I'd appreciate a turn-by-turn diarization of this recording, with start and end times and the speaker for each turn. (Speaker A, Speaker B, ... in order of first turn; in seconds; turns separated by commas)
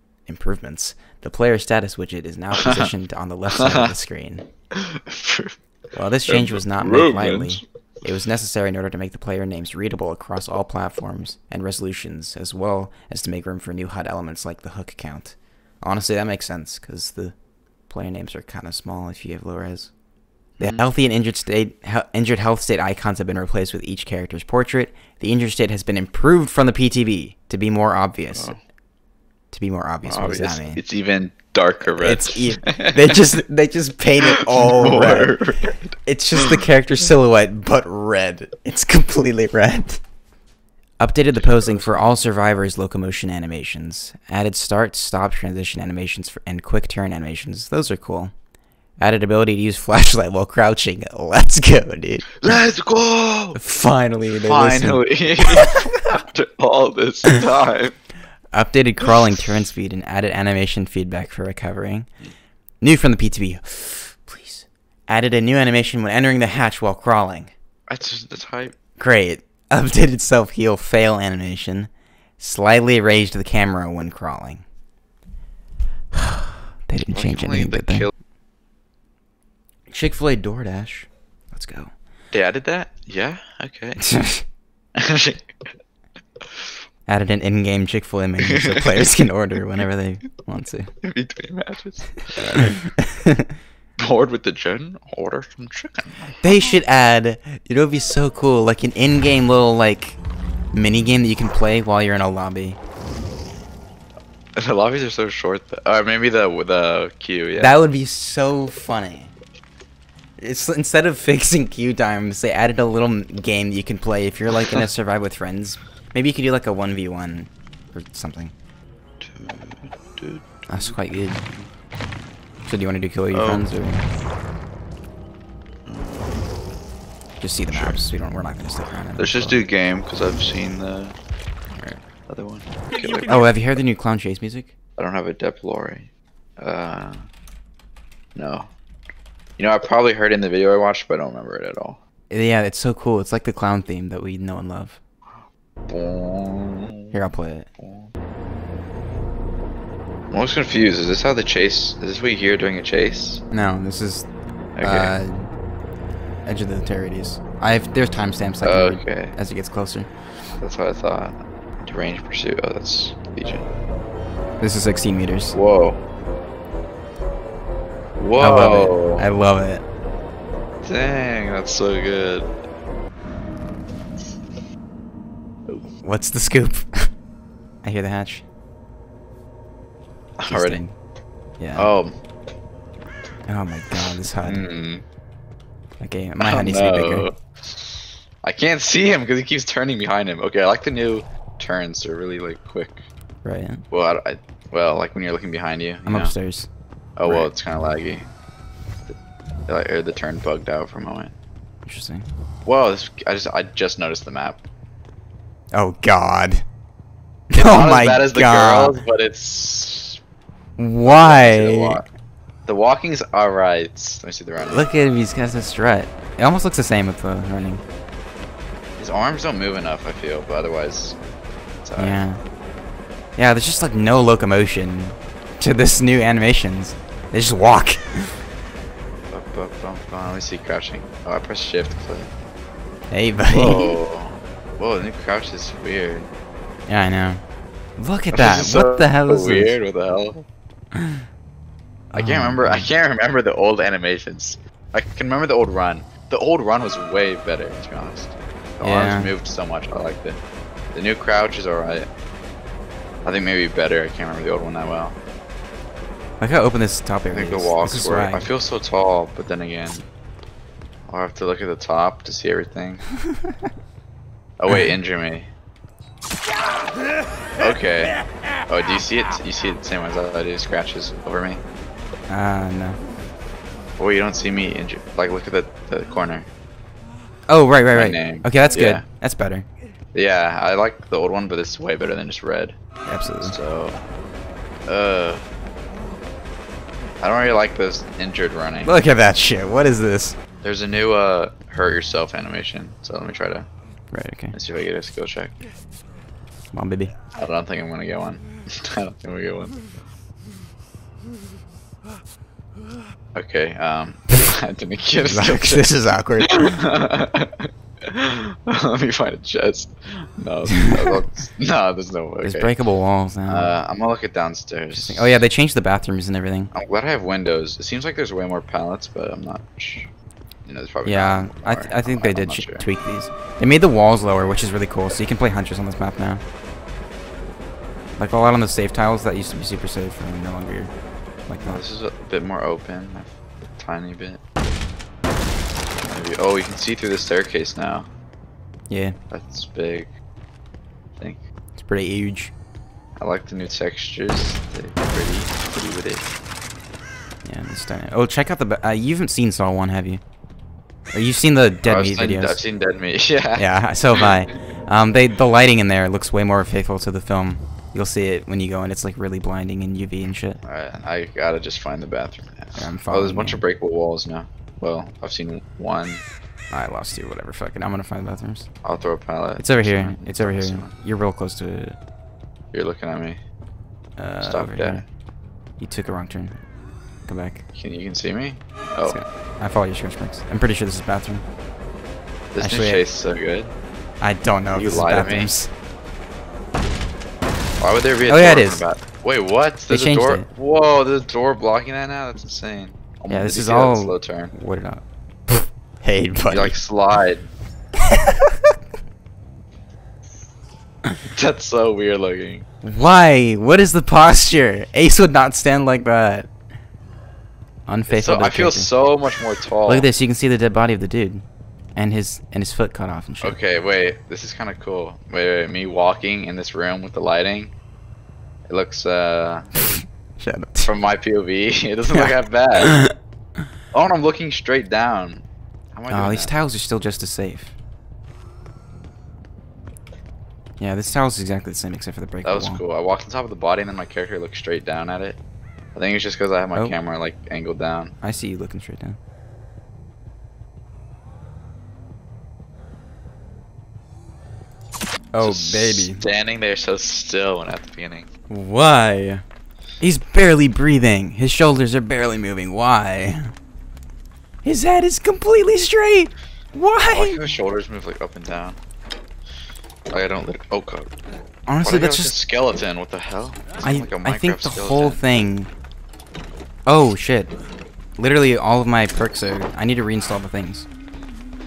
Speaker A: 0.3-4.4, Speaker B: 2.5-2.9, Speaker B: 3.5-3.9, Speaker B: 4.7-5.5, Speaker A: 5.9-17.3, Speaker B: 6.2-7.6, Speaker A: 17.9-19.9, Speaker B: 20.6-20.8, Speaker A: 20.6-28.5, Speaker B: 28.3-28.6, Speaker A: 29.5-30.8, Speaker B: 30.0-33.2, Speaker A: 32.0-35.3, Speaker B: 34.2-36.6, Speaker A: 36.0-40.0, Speaker A: 41.0-48.3, Speaker B: 41.3-42.2, Speaker A: 49.0-52.5, Speaker B: 52.4-53.6, Speaker A: 53.5-55.9, Speaker B: 54.3-58.0, Speaker A: 58.5-62.1, Speaker A: 62.8-67.5, Speaker B: 67.9-68.7, Speaker A: 69.0-74.6, Speaker A: 76.1-78.1, Speaker B: 77.1-78.1, Speaker A: 79.9-81.9, Speaker B: 82.3-84.0, Speaker A: 84.0-84.4, Speaker B: 85.0-85.5, Speaker A: 87.1-90.9, Speaker B: 88.4-89.1, Speaker B: 91.0-92.8, Speaker A: 92.4-93.5, Speaker B: 94.0-96.3, Speaker A: 96.4-100.2, Speaker A: 100.7-102.8, Speaker B: 104.6-107.8, Speaker A: 107.6-109.3, Speaker A: 110.4-118.5, Speaker B: 119.2-121.0, Speaker A: 120.7-121.4, Speaker A: 122.7-124.0, Speaker B: 123.3-123.7, Speaker B: 125.8-126.4, Speaker A: 127.4-129.6, Speaker B: 127.7-128.2, Speaker B: 129.2-131.2, Speaker B: 132.3-133.5, Speaker A: 133.2-134.7, Speaker B: 135.0-137.2, Speaker B: 138.3-138.7, Speaker B: 139.6-142.0, Speaker A: 142.3-145.0, Speaker B: 145.3-147.2, Speaker A: 147.1-147.7, Speaker B: 147.8-148.1, Speaker B: 150.3-153.4, Speaker A: 153.5-154.3, Speaker B: 154.8-155.1, Speaker A: 154.8-155.5, Speaker A: 156.4-160.1, Speaker B: 158.6-159.3, Speaker B: 160.6-163.6, Speaker A: 164.6-165.6, Speaker B: 165.5-166.0, Speaker B: 168.2-169.3, Speaker A: 168.4-169.8, Speaker B: 170.8-172.5, Speaker B: 175.7-175.9, Speaker A: 176.0-177.1, Speaker A: 177.8-178.4, Speaker B: 180.4-180.8, Speaker A: 180.5-180.9, Speaker A: 181.6-181.9, Speaker B: 181.8-182.2, Speaker A: 183.5-184.6, Speaker B: 184.4-185.0, Speaker A: 186.0-187.3, Speaker B: 186.4-193.0, Speaker A: 193.4-193.8, Speaker B: 193.9-196.3, Speaker A: 196.0-196.7, Speaker B: 197.2-198.3, Speaker A: 197.2-197.5, Speaker B: 199.7-201.3, Speaker A: 201.8-202.3, Speaker B: 202.6-204.6, Speaker A: 205.7-206.6, Speaker A: 207.5-209.0, Speaker B: 207.5-210.2, Speaker A: 210.8-212.0, Speaker B: 211.0-212.0, Speaker B: 212.7-214.8, Speaker A: 214.7-217.8, Speaker B: 219.0-221.2, Speaker B: 221.8-222.2, Speaker A: 222.0-222.4, Speaker A: 223.3-228.4, Speaker B: 229.3-232.3, Speaker A: 233.1-234.0, Speaker B: 233.5-236.3, Speaker A: 236.9-237.4, Speaker A: 238.0-239.8, Speaker B: 238.3-240.4, Speaker A: 240.9-241.2, Speaker A: 242.1-242.9, Speaker B: 242.1-250.4, Speaker A: 248.8-249.3, Speaker B: 250.9-252.1, Speaker B: 253.2-255.2, Speaker A: 256.4-258.5, Speaker B: 257.3-260.0, Speaker B: 261.1-263.1, Speaker B: 264.6-265.5, Speaker B: 267.6-271.6, Speaker A: 272.3-273.0, Speaker B: 274.0-276.5, Speaker A: 277.5-279.6, Speaker B: 277.9-279.0, Speaker B: 280.1-282.8, Speaker A: 283.1-283.6, Speaker B: 283.4-284.0, Speaker B: 284.9-285.4, Speaker B: 287.2-289.0, Speaker A: 288.8-290.4, Speaker B: 290.6-293.7, Speaker A: 294.1-294.5, Speaker B: 294.5-295.6, Speaker A: 296.7-297.1, Speaker B: 297.4-299.8, Speaker B: 303.3-305.9, Speaker A: 305.2-306.8, Speaker B: 306.4-312.7, Speaker A: 312.4-313.7, Speaker B: 313.4-315.4, Speaker A: 314.9-316.7, Speaker B: 316.7-320.1, Speaker B: 320.6-322.9, Speaker A: 321.0-326.4, Speaker A: 328.2-330.9, Speaker A: 331.5-331.8, Speaker B: 331.6-334.4, Speaker B: 336.0-338.1, Speaker A: 338.9-339.2, Speaker B: 339.3-340.1, Speaker B: 341.2-341.4, Speaker A: 341.8-342.5, Speaker B: 343.2-346.3, Speaker A: 347.4-350.2, Speaker A: 351.1-352.6, Speaker B: 351.8-354.3, Speaker A: 353.6-360.6, Speaker B: 360.6-366.2, Speaker A: 362.8-363.6, Speaker A: 366.7-368.7, Speaker B: 368.8-370.9, Speaker A: 369.6-371.9, Speaker B: 372.7-373.4, Speaker A: 374.2-375.0, Speaker B: 374.4-375.1, Speaker A: 375.8-376.6, Speaker A: 377.3-377.6, Speaker B: 377.7-379.2, Speaker A: 379.0-381.4, Speaker B: 382.5-383.7, Speaker A: 382.6-383.0, Speaker A: 384.2-385.7, Speaker B: 384.7-385.5, Speaker B: 387.8-394.5, Speaker A: 388.3-388.8, Speaker A: 389.9-390.5, Speaker A: 393.3-396.7, Speaker B: 396.5-397.5, Speaker A: 398.1-398.7, Speaker B: 401.3-402.6, Speaker A: 402.8-406.5, Speaker A: 407.9-408.9, Speaker B: 408.1-410.1, Speaker A: 409.9-411.4, Speaker A: 411.9-413.6, Speaker B: 413.4-417.7, Speaker B: 418.7-419.7, Speaker A: 420.0-420.9, Speaker B: 420.8-423.0, Speaker A: 422.1-423.1, Speaker B: 423.9-426.5, Speaker A: 426.1-427.7, Speaker A: 430.8-432.8, Speaker B: 432.4-435.4, Speaker B: 435.9-438.1, Speaker A: 438.2-439.2, Speaker A: 445.3-446.2, Speaker B: 445.4-448.3, Speaker A: 448.5-449.4, Speaker A: 450.0-453.5, Speaker A: 454.6-457.4, Speaker B: 457.1-458.8, Speaker B: 460.1-461.1, Speaker A: 461.7-462.3, Speaker B: 461.8-465.4, Speaker A: 463.8-465.7, Speaker A: 466.9-467.5, Speaker A: 468.2-470.9